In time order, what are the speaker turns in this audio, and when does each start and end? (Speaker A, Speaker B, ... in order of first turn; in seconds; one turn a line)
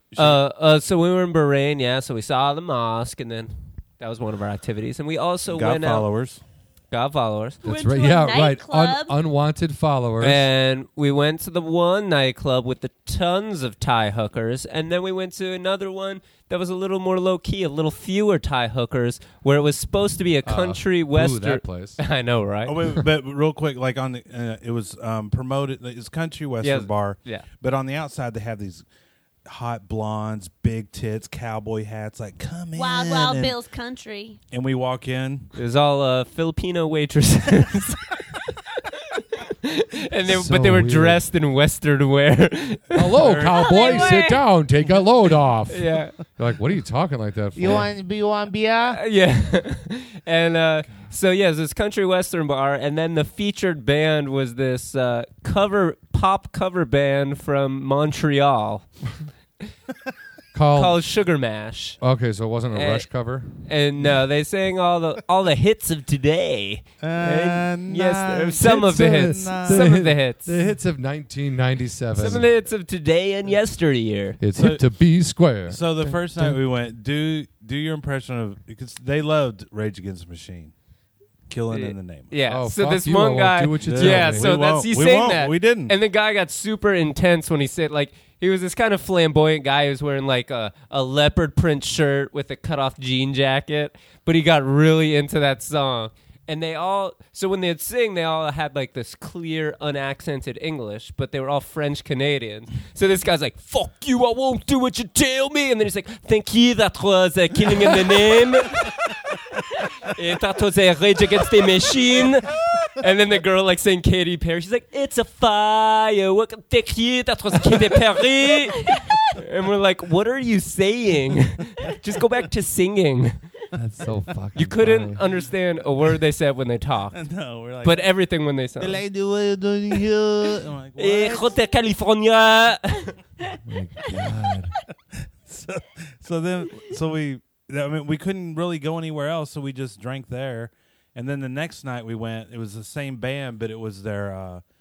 Speaker A: 0.1-0.4
Speaker B: 0.1-6.1
Speaker A: 5.5-6.4
Speaker B: 6.9-7.6
Speaker C: 7.6-9.2
Speaker D: 7.7-10.4
Speaker B: 10.2-23.0
Speaker D: 20.4-22.0
Speaker A: 22.6-28.9
Speaker B: 26.6-27.5
Speaker A: 29.4-33.5
Speaker C: 32.7-34.4
Speaker A: 34.5-35.5
Speaker B: 35.5-38.4
Speaker B: 39.2-43.3
Speaker D: 40.3-41.2
Speaker D: 42.9-47.9
Speaker A: 43.2-44.1
Speaker C: 43.5-44.4
Speaker B: 45.7-46.1
Speaker E: 47.5-49.0
Speaker B: 48.9-58.9
Speaker D: 60.5-61.0
Speaker B: 60.7-62.0
Speaker D: 62.0-63.6
Speaker B: 62.7-70.5
Speaker A: 67.0-70.0
Speaker D: 68.6-72.5
Speaker B: 72.1-74.4
Speaker D: 74.4-76.6
Speaker A: 74.5-74.8
Speaker A: 75.7-80.7
Speaker A: 81.5-82.3
Speaker B: 81.7-108.9
Speaker D: 82.5-84.5
Speaker A: 83.8-85.9
Speaker B: 110.0-123.4
Speaker D: 123.7-125.2
Speaker B: 124.5-127.3
Speaker A: 127.1-128.0
Speaker B: 127.8-129.0
Speaker E: 128.8-131.4
Speaker A: 130.7-131.4
Speaker B: 131.0-133.2
Speaker D: 133.6-134.7
Speaker A: 135.4-144.6